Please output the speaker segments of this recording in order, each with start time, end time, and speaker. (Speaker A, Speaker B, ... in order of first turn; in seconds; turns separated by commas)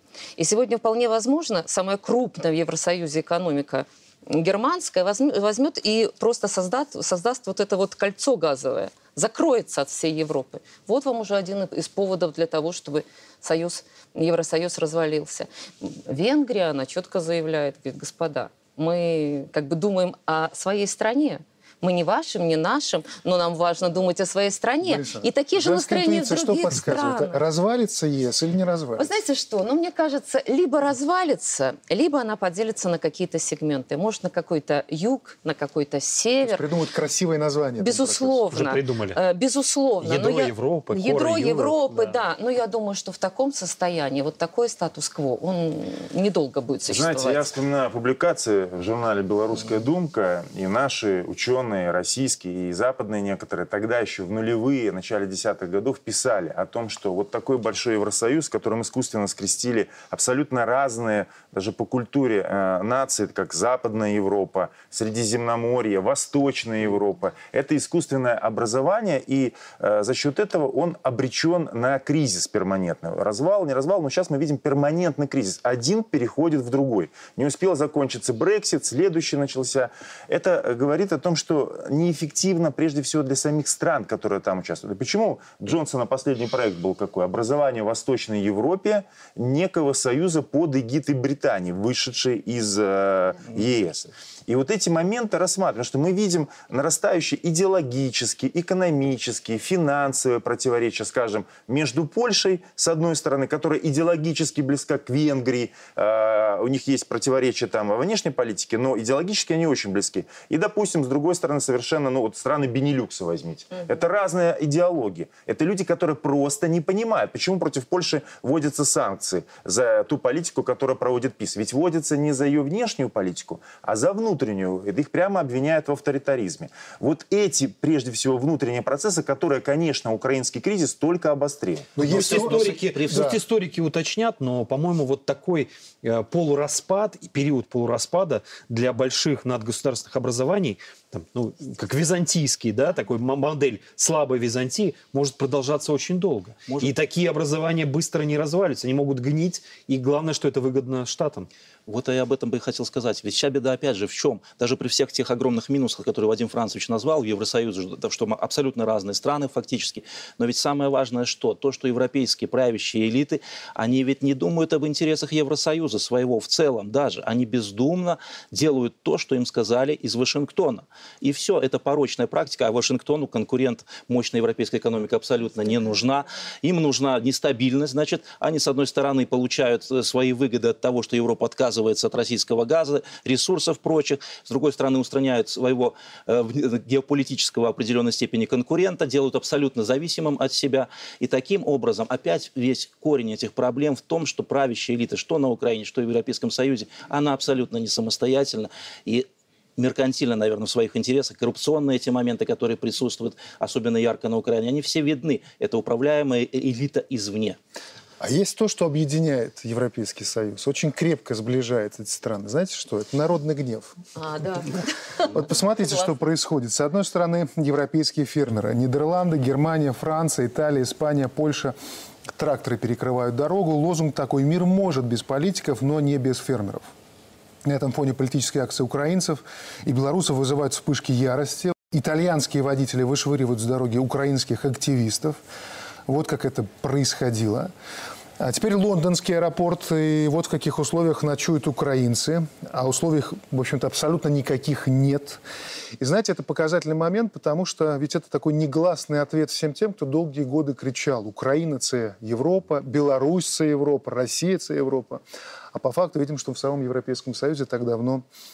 Speaker A: 0.4-27.4, Speaker B: 24.8-29.1, Speaker A: 29.0-36.7, Speaker B: 36.4-38.4, Speaker A: 37.8-47.5, Speaker C: 38.5-39.2, Speaker C: 40.0-42.0, Speaker D: 46.9-132.0, Speaker B: 132.0-133.4, Speaker C: 132.0-151.5, Speaker E: 132.0-133.3, Speaker E: 151.9-207.6, Speaker B: 208.2-214.0, Speaker A: 214.2-216.1, Speaker B: 215.2-221.8, Speaker B: 222.3-226.9, Speaker B: 227.7-235.4, Speaker B: 236.1-237.7, Speaker B: 238.4-245.4, Speaker B: 246.0-258.2